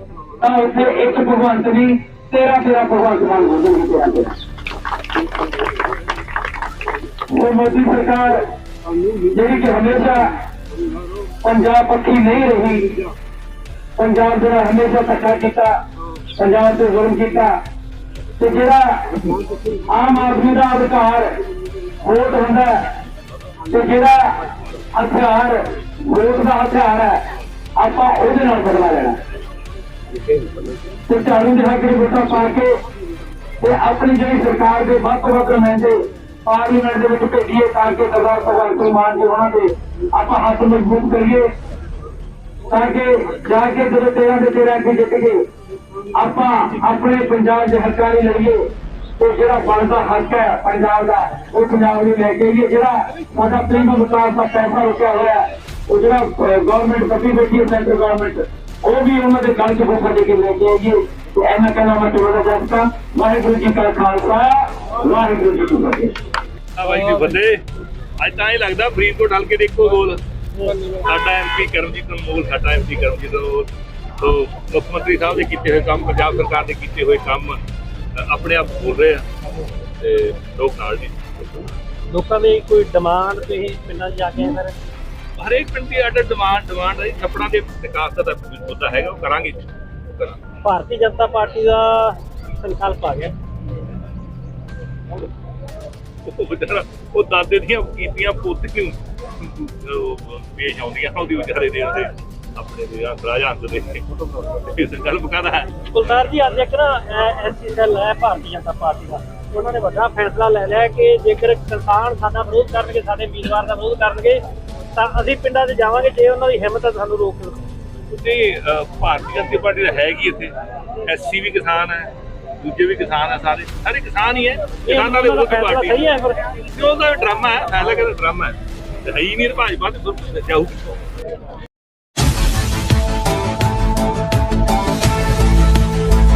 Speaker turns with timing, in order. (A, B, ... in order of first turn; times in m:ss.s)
0:00.4-0:04.3 A
0:07.3-0:08.4 A
0:09.2-0:10.4 A
0:11.4-0:13.1 A
0:14.0-0:15.7 A
0:16.4-0:17.5 A
0:18.4-0:19.4 A
0:19.9-0:21.4 A
0:22.0-0:22.9 A
0:23.7-0:29.2 A
0:31.1-0:32.8 A
0:33.6-0:41.5 A
0:42.7-0:45.4 A
0:46.1-0:48.6 A
0:49.2-1:06.2 A
1:06.8-1:07.6 B
1:08.2-1:10.2 B
1:10.9-1:17.6 B
1:18.2-1:19.2 B
1:20.0-1:21.2 B
1:22.1-1:24.7 C
1:25.4-1:29.6 B
1:30.6-1:33.3 C
1:36.2-1:45.8 B
1:45.9-1:54.4 C
1:54.9-1:57.6 C
1:58.1-2:11.0 B
2:04.8-2:06.4 C